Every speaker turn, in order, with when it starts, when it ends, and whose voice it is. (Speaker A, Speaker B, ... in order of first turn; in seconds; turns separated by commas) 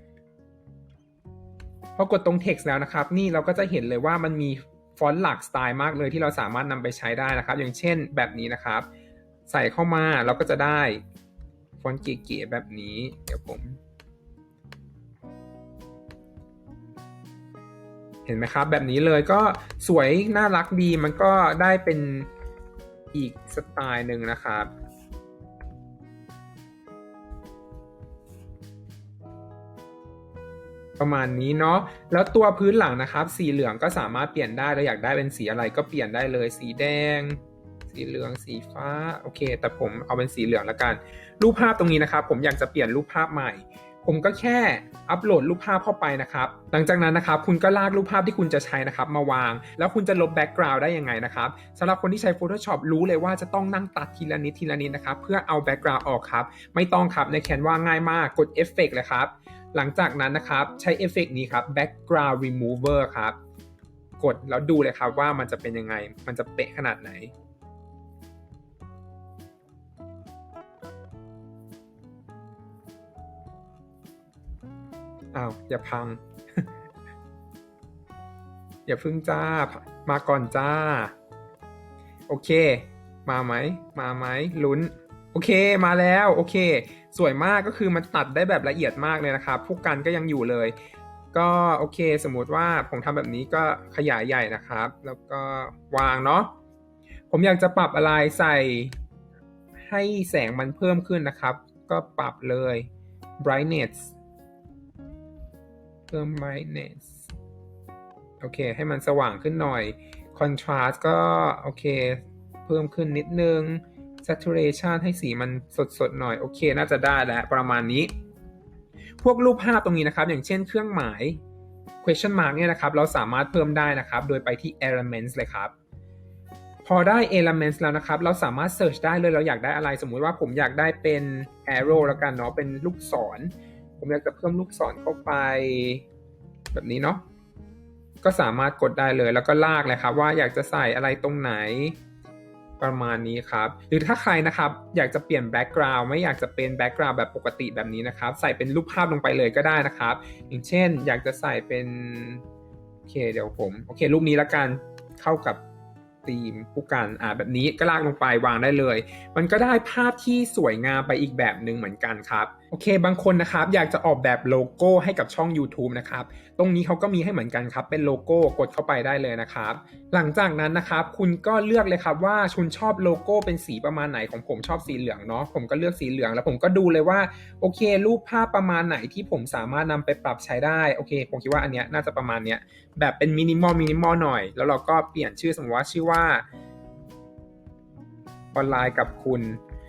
Speaker A: 2.0-8.9, Speaker A: 9.5-11.0, Speaker A: 11.8-13.8, Speaker A: 18.3-22.3, Speaker A: 23.1-24.7, Speaker A: 31.0-63.4, Speaker A: 64.2-67.3, Speaker A: 75.3-76.7, Speaker A: 78.9-81.1, Speaker A: 82.3-90.8, Speaker A: 91.3-96.5, Speaker A: 97.3-99.0, Speaker A: 99.8-102.9, Speaker A: 103.4-104.1, Speaker A: 106.1-107.3, Speaker A: 108.4-118.1, Speaker A: 119.2-121.4, Speaker A: 122.0-125.7, Speaker A: 126.8-136.1, Speaker A: 136.7-137.2, Speaker A: 138.2-142.0, Speaker A: 142.8-152.4, Speaker A: 153.1-155.6, Speaker A: 156.2-186.4, Speaker A: 188.6-189.6